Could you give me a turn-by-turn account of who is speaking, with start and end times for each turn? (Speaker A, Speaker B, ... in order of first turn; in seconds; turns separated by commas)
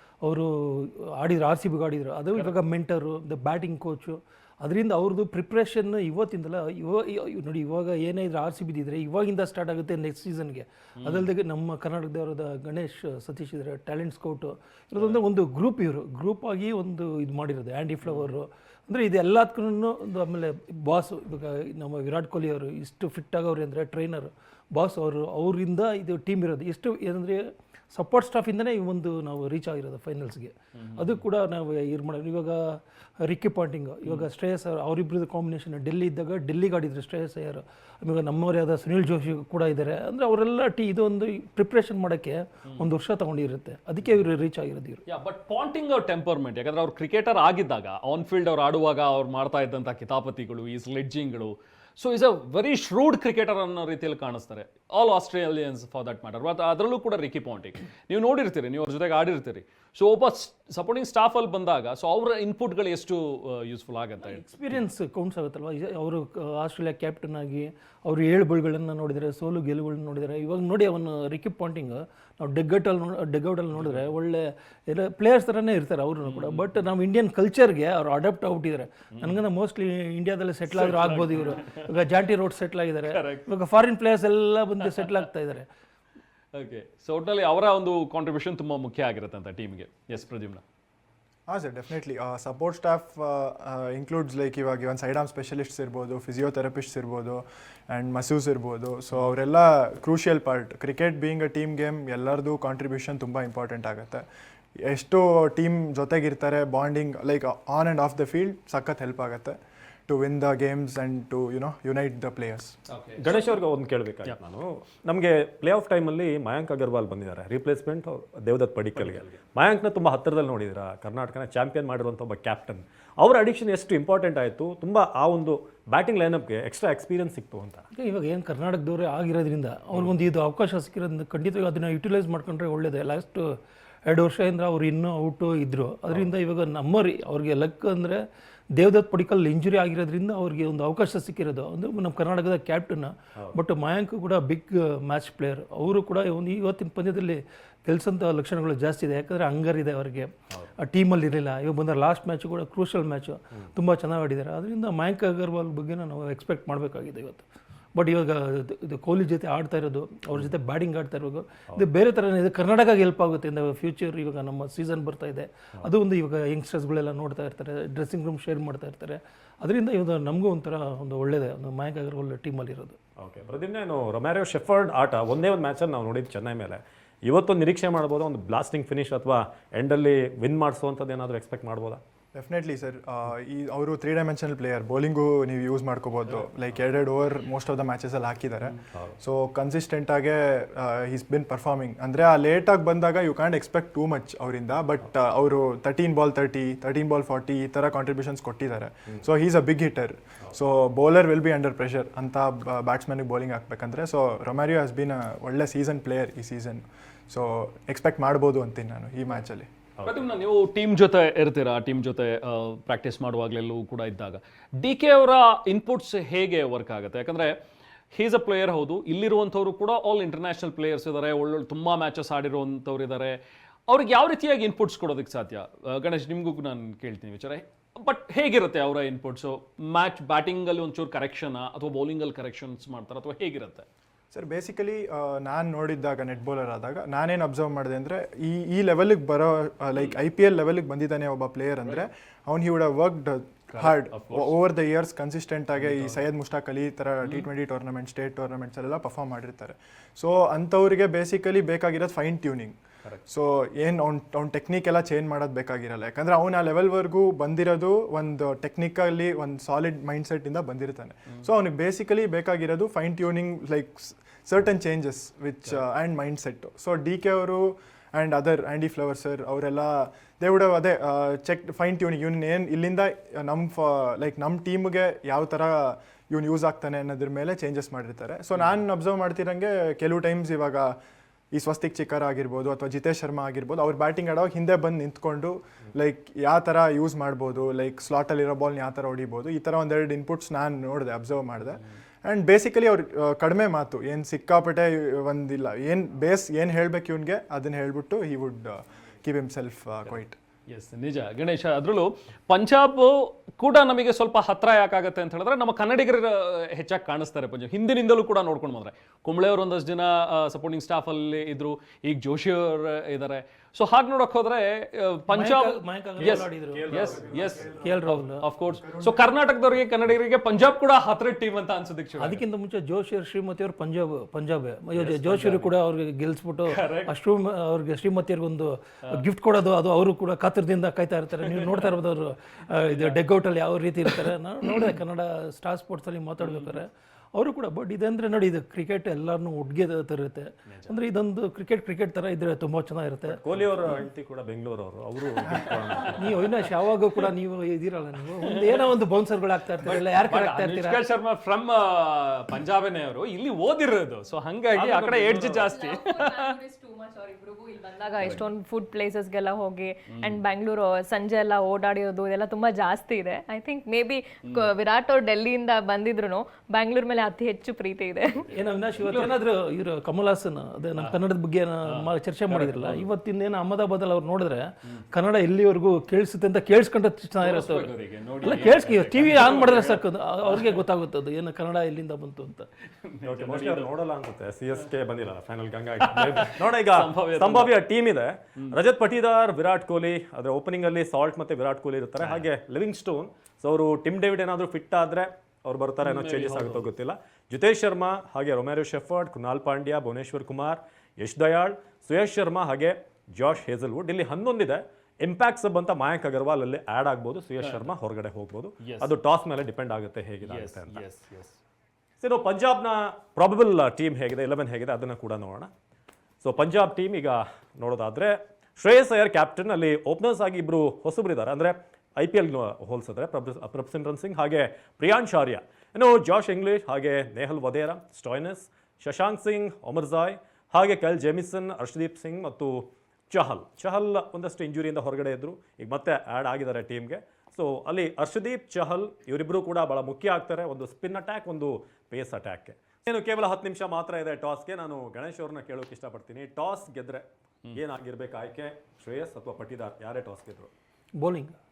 Speaker A: 0.2-45.0, Speaker B: 11.0-11.3, Speaker B: 30.8-31.2, Speaker B: 45.0-64.8, Speaker A: 64.2-85.7, Speaker B: 73.7-74.1, Speaker B: 76.2-76.8, Speaker B: 79.2-79.4, Speaker B: 80.7-81.9, Speaker B: 83.0-83.5, Speaker B: 86.5-90.6, Speaker C: 91.5-104.2, Speaker C: 104.8-109.6, Speaker C: 110.1-112.7, Speaker B: 112.9-113.3, Speaker D: 113.2-127.8, Speaker B: 118.9-119.4, Speaker A: 128.0-133.6, Speaker D: 130.0-130.2, Speaker A: 134.1-138.2, Speaker A: 138.7-173.0, Speaker D: 173.2-182.0, Speaker C: 182.3-209.7, Speaker D: 210.0-210.2, Speaker B: 210.0-217.6, Speaker B: 218.1-233.9, Speaker C: 234.3-280.9, Speaker B: 243.7-244.5, Speaker B: 245.8-246.2, Speaker C: 281.5-300.4, Speaker B: 300.0-317.8, Speaker A: 315.3-317.2, Speaker D: 316.2-317.8, Speaker C: 316.9-319.3, Speaker A: 317.8-318.4, Speaker B: 318.4-322.4, Speaker A: 322.2-343.4, Speaker B: 324.9-325.7, Speaker B: 326.7-327.1, Speaker B: 331.4-331.9, Speaker B: 332.8-333.2, Speaker B: 336.4-336.8, Speaker B: 340.7-340.9, Speaker D: 343.2-346.5, Speaker B: 345.6-346.5, Speaker A: 346.1-351.1, Speaker B: 348.4-348.8, Speaker B: 349.8-356.5, Speaker E: 355.6-368.4, Speaker B: 358.2-358.4, Speaker B: 360.1-360.4, Speaker A: 368.5-382.7, Speaker B: 368.9-369.4, Speaker B: 371.9-373.1, Speaker B: 377.4-380.8, Speaker B: 383.0-384.0, Speaker D: 383.2-411.0, Speaker B: 386.1-387.8, Speaker B: 392.2-392.5, Speaker B: 396.0-396.9, Speaker B: 407.6-407.9, Speaker B: 408.8-409.1, Speaker B: 410.4-411.6, Speaker D: 412.2-415.7, Speaker D: 416.4-450.7, Speaker A: 451.2-451.6